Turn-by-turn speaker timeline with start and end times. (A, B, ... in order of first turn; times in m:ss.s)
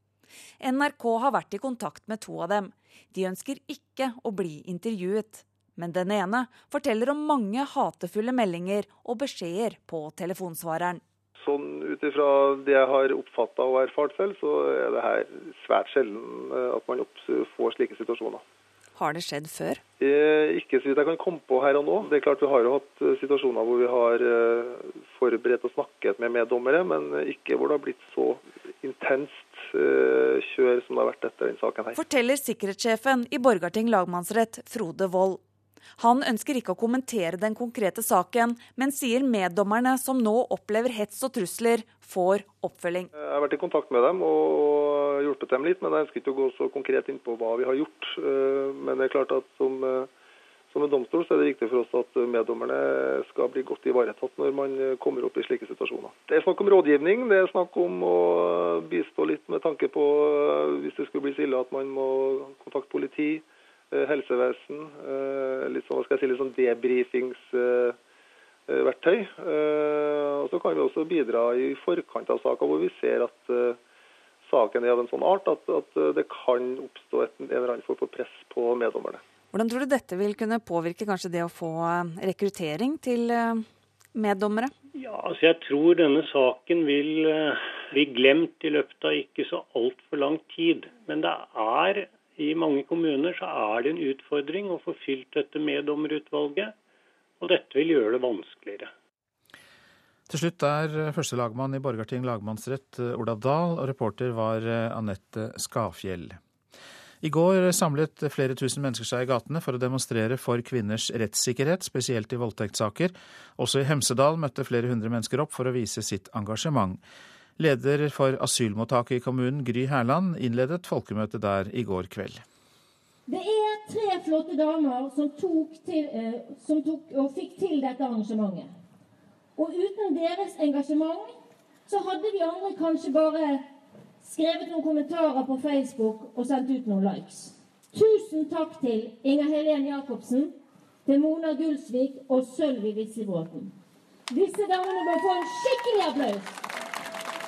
0:00.6-0:11.0 A
0:11.4-0:18.4 B
0:18.9-0:19.8 A
0:20.0-0:32.0 B
0:31.9-0:35.4 A
0:36.0-0:43.1 A
0:43.2-0:50.1 B
0:50.7-1:08.0 B
1:08.7-1:13.8 B
1:14.4-1:19.2 B
1:19.5-1:24.7 A
1:25.0-1:36.7 C
1:37.4-1:38.9 C
1:40.3-1:46.4 D
1:47.2-1:57.0 D
1:57.6-2:02.4 D
2:03.3-2:08.7 E
2:09.6-2:11.3 E
2:11.9-2:13.6 E
2:14.3-2:20.5 E
2:21.0-2:23.7 E
2:24.3-2:26.4 E